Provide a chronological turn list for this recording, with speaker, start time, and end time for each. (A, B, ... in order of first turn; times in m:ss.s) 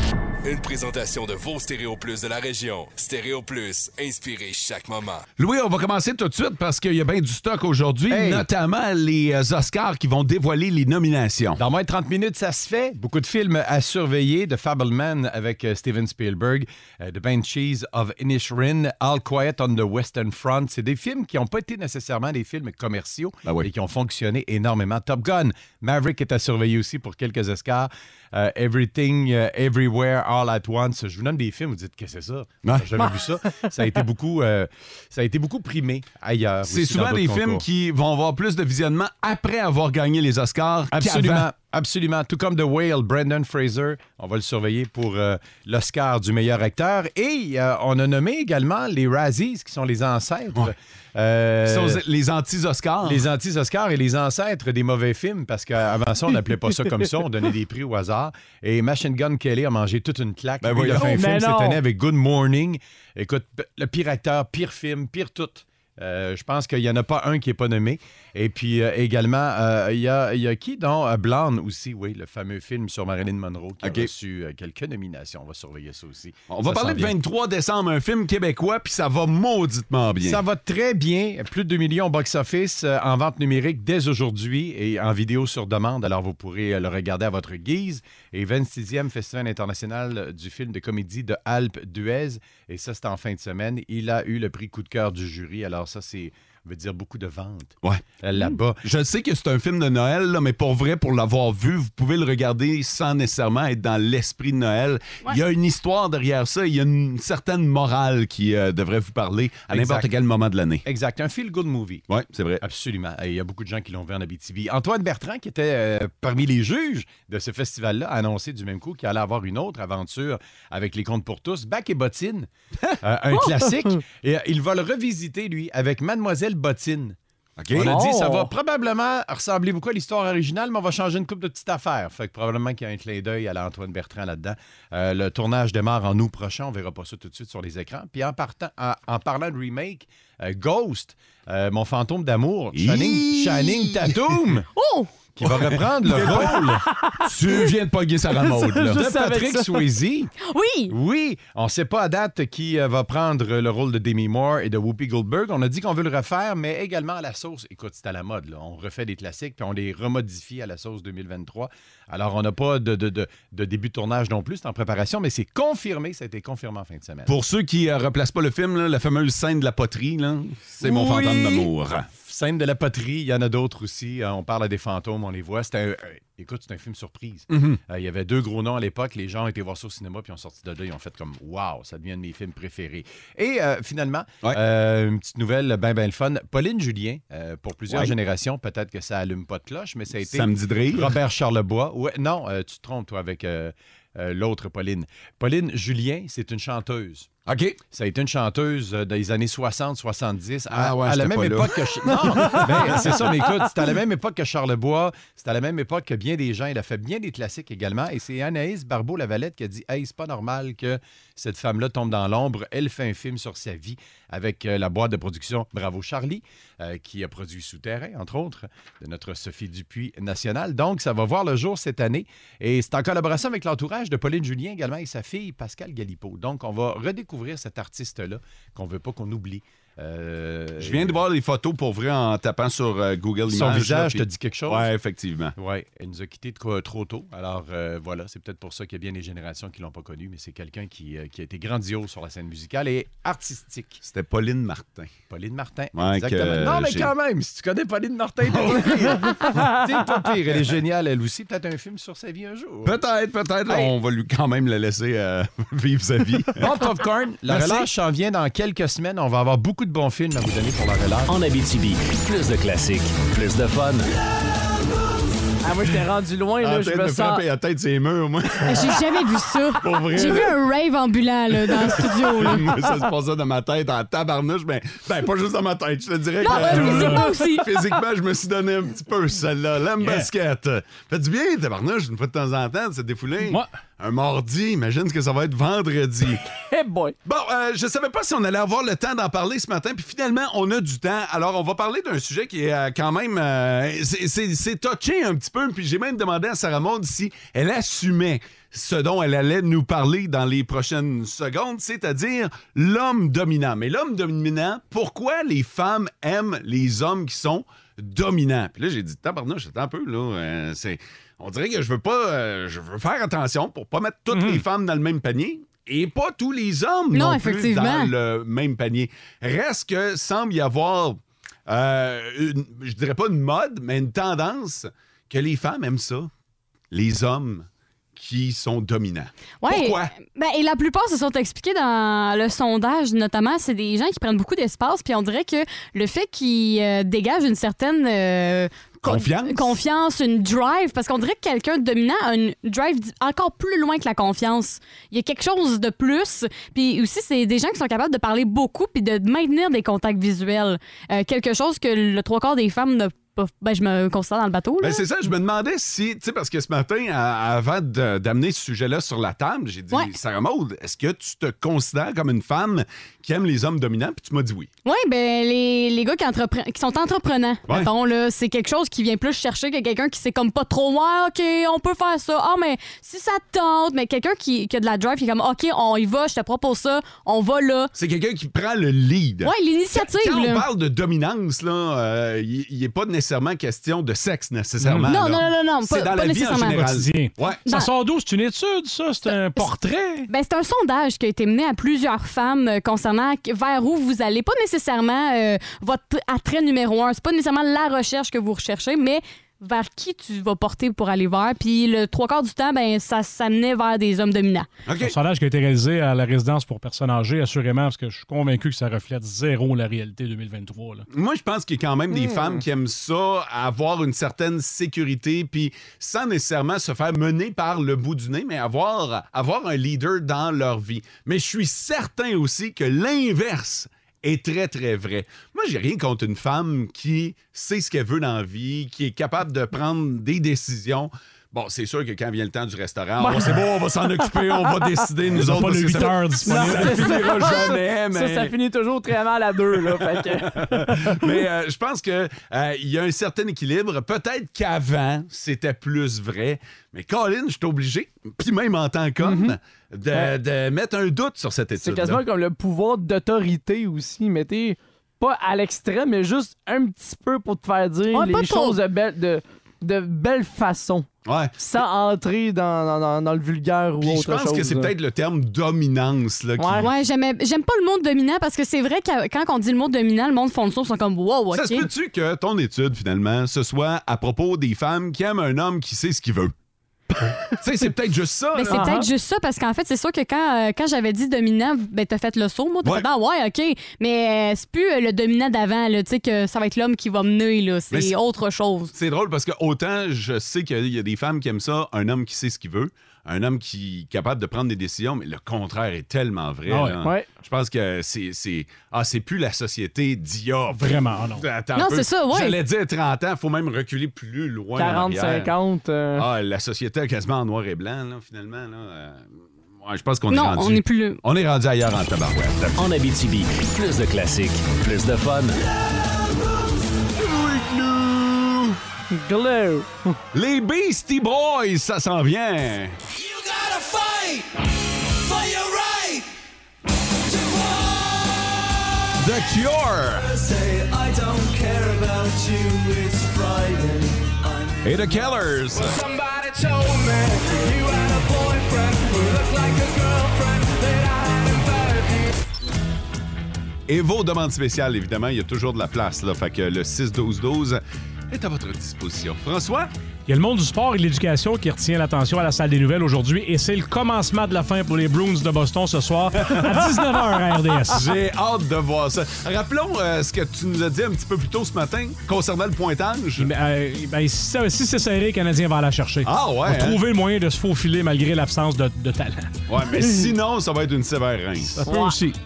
0:00.4-0:05.2 A
0:05.4-0:11.6 B
0:08.1-0:08.5 C
0:11.6-0:37.6 C
0:32.6-0:33.1 B
0:33.0-0:33.6 D
0:36.7-0:41.5 B
0:40.9-0:52.0 C
0:51.7-0:53.3 B
0:53.0-1:17.2 C
1:00.6-1:01.3 B
1:00.9-1:01.8 D
1:13.8-1:14.1 B
1:16.5-1:20.4 B
1:20.2-1:38.8 C
1:38.8-1:50.9 B
1:49.7-1:50.1 C
1:50.8-1:52.0 C
1:52.1-1:52.6 B
1:52.6-2:02.5 C
2:03.0-2:07.2 C
2:07.6-2:08.0 B
2:07.7-2:24.7 C
2:07.8-2:08.5 D
2:22.7-2:24.4 B
2:24.8-2:25.1 E
2:25.4-2:26.8 C
2:25.5-2:26.7 B
2:26.3-2:27.2 D
2:27.2-2:29.0 B
2:28.5-2:29.9 D
2:28.9-2:30.3 C
2:30.5-2:30.9 E
2:30.9-2:47.3 C
2:47.3-2:52.1 B
2:50.8-2:51.7 E
2:52.1-3:17.3 C
2:57.5-2:57.8 B
3:07.9-3:08.2 B
3:10.2-3:11.2 B
3:17.5-3:17.8 B
3:17.8-3:51.2 C
3:20.7-3:23.2 B
3:50.8-3:55.6 B
3:53.5-3:54.9 C
3:55.6-4:04.0 C
4:04.0-4:05.2 B
4:05.3-4:13.0 C
4:05.9-4:07.1 B
4:08.5-4:09.5 B
4:12.8-4:16.8 B
4:13.7-4:13.9 C
4:16.5-4:21.3 C
4:17.5-4:17.9 B
4:21.3-4:24.0 F
4:25.6-4:27.4 D
4:26.6-4:28.9 B
4:28.6-4:32.7 E
4:29.8-4:30.6 B
4:31.7-4:46.4 B
4:36.4-4:37.7 E
4:36.5-4:37.4 D
4:40.0-4:40.3 G
4:46.7-4:47.2 D
4:47.2-5:26.3 B
5:14.3-5:14.6 G
5:17.1-5:18.1 E
5:26.9-5:30.1 B
5:29.6-5:55.0 E
5:39.0-5:39.8 B
5:54.8-6:04.7 B
6:04.8-6:17.9 E
6:18.0-6:27.6 B
6:19.4-6:20.6 E
6:24.8-6:25.1 G
6:25.1-6:26.8 E
6:26.7-6:30.3 G
6:29.3-6:29.7 E
6:30.3-6:44.7 E
6:44.9-6:45.2 B
6:45.0-6:51.0 G
6:51.1-7:18.5 B
6:52.1-6:52.6 D
7:13.2-7:13.8 D
7:15.3-7:17.3 G
7:16.4-7:21.2 D
7:19.8-7:32.2 B
7:29.2-7:29.6 D
7:31.8-7:41.1 D
7:38.1-7:38.8 E
7:41.3-7:41.6 B
7:41.6-7:44.9 D
7:44.0-7:46.9 B
7:46.6-7:46.9 D
7:46.8-7:51.9 E
7:51.5-7:56.5 B
7:57.5-7:58.8 B
7:58.5-8:08.9 E
8:08.9-8:25.5 B
8:16.7-8:17.0 G
8:20.7-8:21.4 G
8:21.8-8:22.6 E
8:24.8-8:26.2 D
8:26.2-8:29.3 B
8:29.8-8:32.7 B
8:30.3-8:31.2 E
8:32.8-8:35.6 F
8:37.2-8:38.8 B
8:39.1-8:40.2 D
8:40.3-8:43.0 B
8:43.1-8:44.4 A
8:45.2-8:46.2 A
8:47.3-8:48.3 A
8:49.2-8:50.3 B
8:50.2-9:02.4 A
8:54.8-8:56.0 B
9:03.9-9:09.9 B
9:10.3-9:18.1 G
9:16.4-9:16.8 B
9:17.9-9:23.5 B
9:23.4-9:30.3 G
9:26.2-9:27.0 B
9:29.7-9:31.8 B
9:31.7-9:32.4 G
9:31.9-9:32.2 D